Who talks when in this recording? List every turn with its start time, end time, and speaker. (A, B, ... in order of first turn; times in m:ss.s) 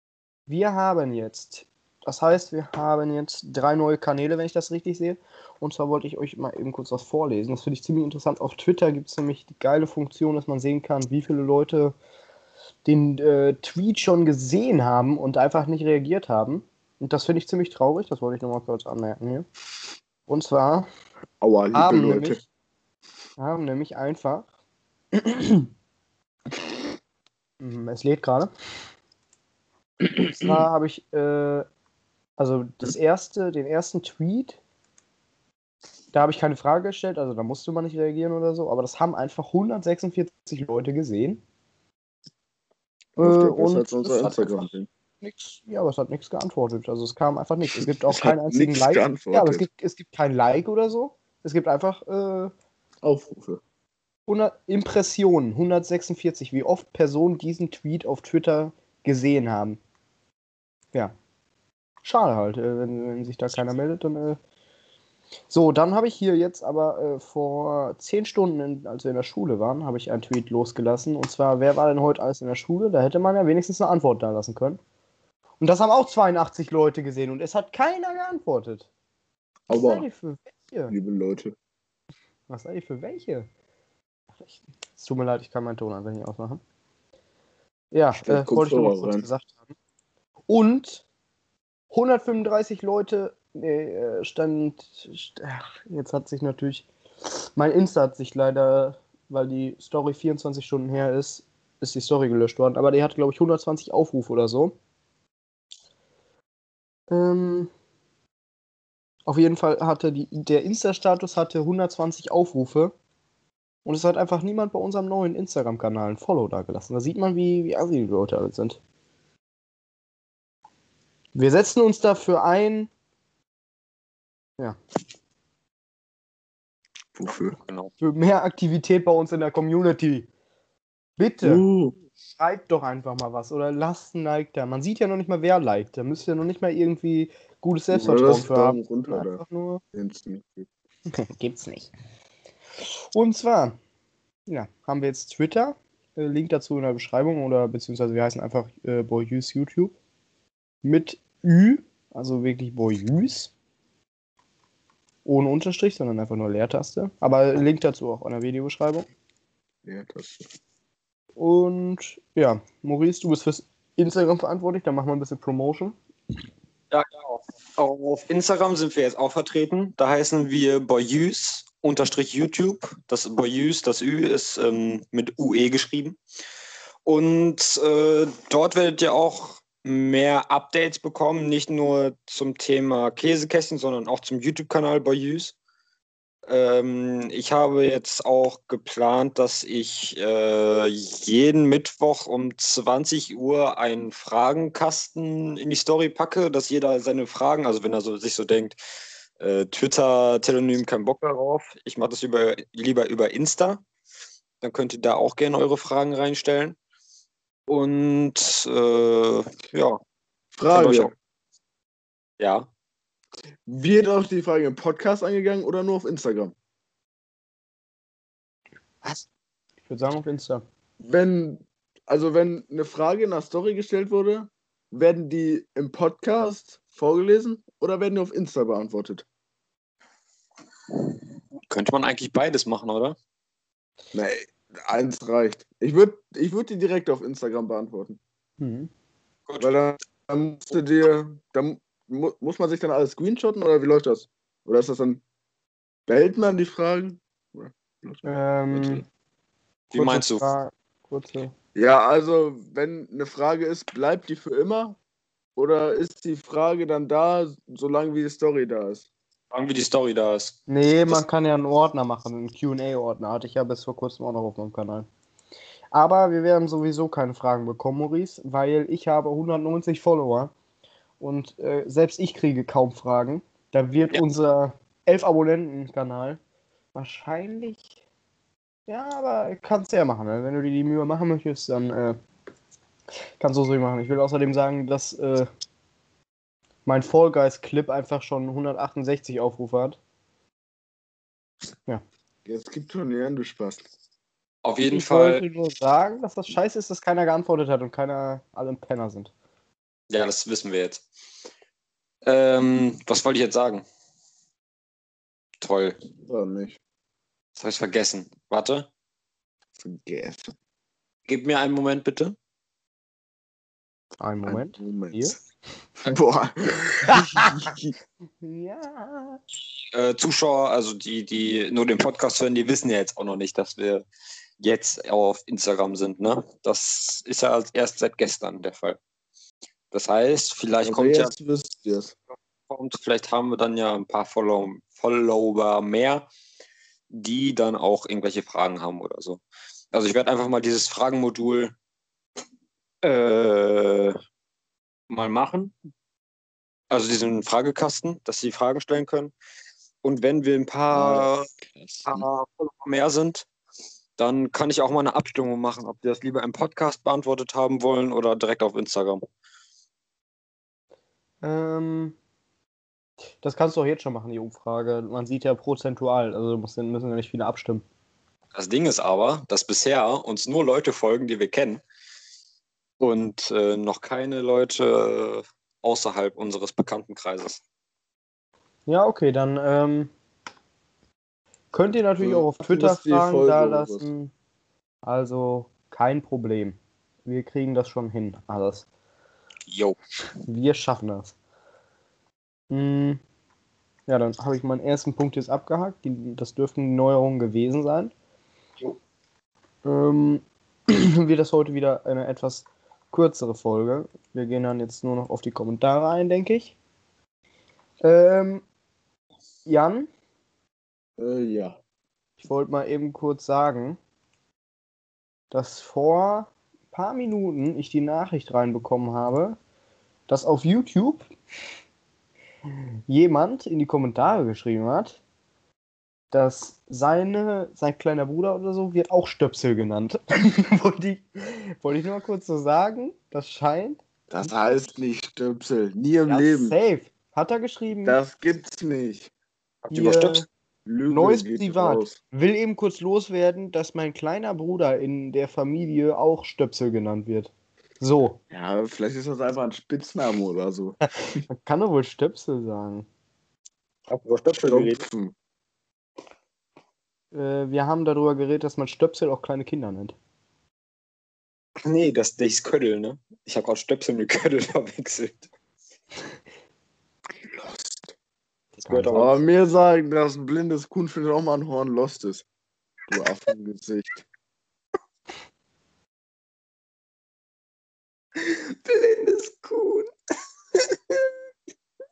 0:00.5-0:11.9 A
0:12.8-0:19.4 A
0:20.3-0:20.9 A
0:21.4-0:22.4 B
0:21.7-0:22.4 A
0:23.4-0:24.5 A
0:25.1-0:25.7 A
0:27.6-0:28.5 A
0:30.2-0:31.6 A
0:32.4-0:34.6 A
0:36.1-0:41.4 A
0:43.2-0:44.3 A
0:43.2-0:44.9 B
0:45.2-0:52.5 A
0:48.1-0:49.6 B
0:53.0-0:53.6 B
0:54.3-0:59.8 A
1:02.0-1:04.4 A
1:05.5-1:14.8 A
1:15.6-1:18.9 A
1:19.7-1:20.0 B
1:19.7-1:20.9 A
1:20.9-1:21.5 B
1:22.5-1:23.5 A
1:25.0-1:26.6 A
1:27.9-1:29.7 A
1:28.2-1:29.3 B
1:30.5-1:31.0 A
1:31.9-1:44.7 A
1:47.1-1:47.7 A
1:49.2-1:52.9 A
1:53.8-1:58.8 A
2:01.3-2:02.9 A
2:07.2-2:07.6 B
2:07.6-2:07.9 C
2:08.0-2:10.3 A
2:11.2-2:11.6 A
2:11.4-2:11.9 B
2:12.4-2:19.8 A
2:17.9-2:19.4 B
2:19.9-2:20.7 B
2:21.1-2:21.9 A
2:23.1-2:23.8 A
2:24.5-2:29.9 A
2:30.8-2:33.5 A
2:35.2-2:39.1 A
2:39.8-2:40.5 B
2:41.4-2:45.9 A
2:46.9-2:56.2 C
2:57.0-3:05.5 C
3:06.5-3:18.8 C
3:19.4-3:23.8 C
3:24.6-3:26.8 C
3:27.7-3:30.0 C
3:30.6-3:31.1 B
3:30.7-3:31.1 C
3:32.4-3:32.7 C
3:33.6-3:36.5 B
3:39.8-3:40.6 A
3:41.0-3:49.2 B
3:51.7-3:53.2 C
3:54.1-3:58.2 B
3:58.6-3:58.9 A
3:59.5-3:59.7 C
3:59.6-4:05.2 B
4:06.1-4:09.0 B
4:08.2-4:09.0 A
4:09.9-4:10.4 C
4:09.9-4:11.5 A
4:11.7-4:15.0 B
4:15.6-4:19.1 B
4:19.5-4:21.2 C
4:20.7-4:25.1 A
4:25.9-4:30.5 A
4:31.2-4:36.4 A
4:36.9-4:37.8 A
4:38.9-4:42.2 A
4:43.4-4:45.5 A
4:46.8-4:50.0 A
4:52.4-4:53.9 B
4:54.6-4:55.4 C
4:54.8-4:59.3 A
5:00.1-5:01.0 C
5:02.2-5:03.8 C
5:05.6-5:06.0 C
5:06.3-5:06.8 B
5:07.6-5:08.9 C
5:09.8-5:10.5 B
5:11.3-5:12.4 C
5:14.2-5:15.4 A
5:14.4-5:15.3 B
5:16.0-5:17.9 B
5:17.0-5:17.5 A
5:18.4-5:19.4 A
5:19.9-5:24.0 C
5:24.6-5:29.0 C
5:29.9-5:31.3 C
5:30.8-5:32.1 B
5:32.7-5:36.3 C
5:37.1-5:39.4 C
5:39.9-5:41.7 C
5:43.0-5:44.2 C
5:45.1-5:45.7 C
5:46.9-5:49.3 C
5:50.0-5:51.5 C
5:50.9-5:52.3 B
5:52.0-5:53.4 C
5:54.2-5:59.2 C
6:01.4-6:02.2 A
6:03.4-6:07.8 A
6:08.5-6:11.8 C
6:13.0-6:17.6 C
6:18.9-6:20.1 A
6:21.7-6:24.3 A
6:22.2-6:24.1 B
6:25.0-6:28.8 A
6:29.7-6:30.0 C
6:30.5-6:31.3 A
6:32.7-6:33.2 A
6:34.1-6:38.1 A
6:39.8-6:46.8 A
6:48.0-6:48.6 A
6:49.6-6:50.1 A
6:51.2-6:51.8 B
6:52.4-6:54.0 A
6:55.5-6:59.6 A
7:00.3-7:01.2 A
7:03.1-7:05.2 A
7:06.3-7:14.0 A
7:14.3-7:16.7 B
7:16.3-7:18.2 A
7:18.0-7:19.3 B
7:19.8-7:20.4 C
7:19.9-7:20.4 A
7:20.8-7:22.2 B
7:21.1-7:28.4 A
7:28.5-7:31.4 B
7:31.5-7:33.0 A
7:34.1-7:35.0 C
7:34.6-7:35.3 B
7:37.3-7:40.2 A
7:41.8-7:45.5 C
7:47.4-7:48.1 B
7:48.8-7:49.4 C
7:48.8-7:49.2 A
7:49.1-7:52.4 B
7:53.1-7:54.2 B
7:58.4-8:00.1 C